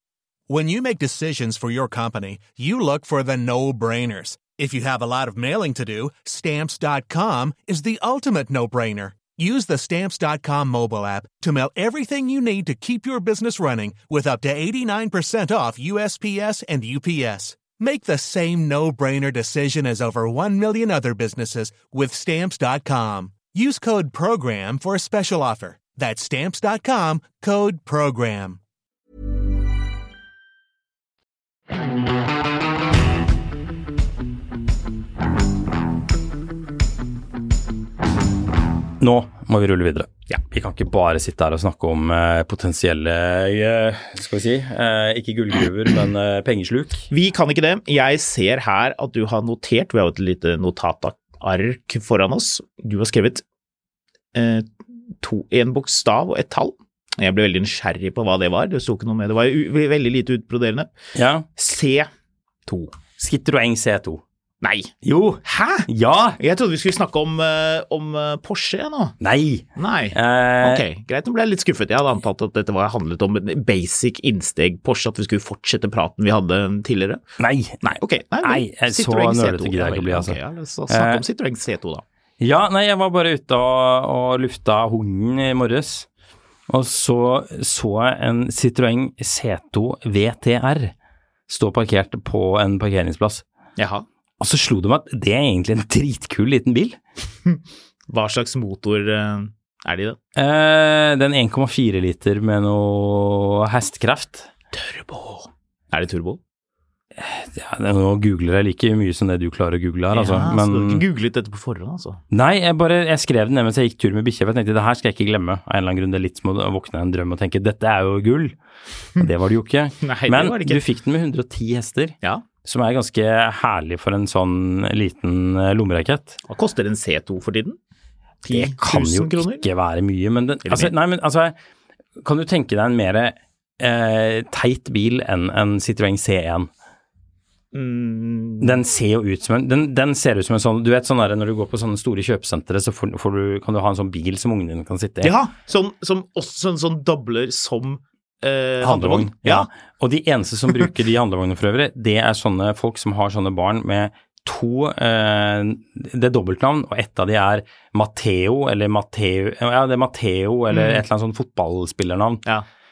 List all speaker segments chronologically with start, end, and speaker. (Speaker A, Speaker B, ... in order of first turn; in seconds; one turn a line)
Speaker A: 0.5-28.6
Speaker B: 39.0-47.1
Speaker C: 47.1-53.4
Speaker C: 54.3-54.7
Speaker C: 55.2-60.9
Speaker B: 61.1-61.5
Speaker C: 61.6-62.1
Speaker C: 62.7-63.0
Speaker B: 63.2-64.2
Speaker C: 64.6-64.9
Speaker B: 65.0-66.4
Speaker C: 65.5-65.9
Speaker C: 66.4-69.2
Speaker B: 69.2-70.8
Speaker C: 69.8-77.2
Speaker B: 77.4-80.4
Speaker C: 77.8-82.0
Speaker B: 80.9-81.2
Speaker B: 82.4-86.1
Speaker B: 86.7-90.9
Speaker B: 91.5-93.4
Speaker C: 93.8-94.0
Speaker B: 94.4-97.0
Speaker C: 98.1-100.2
Speaker B: 100.3-104.5
Speaker C: 104.7-106.4
Speaker B: 107.2-111.0
Speaker C: 110.1-112.2
Speaker B: 112.3-118.5
Speaker B: 119.2-126.4
Speaker C: 120.0-120.8
Speaker C: 126.5-127.8
Speaker C: 128.4-129.7
Speaker B: 128.5-131.5
Speaker C: 130.7-130.9
Speaker B: 132.2-136.7
Speaker C: 137.7-138.8
Speaker B: 138.6-145.3
Speaker C: 145.2-149.7
Speaker B: 148.8-162.4
Speaker C: 160.7-161.0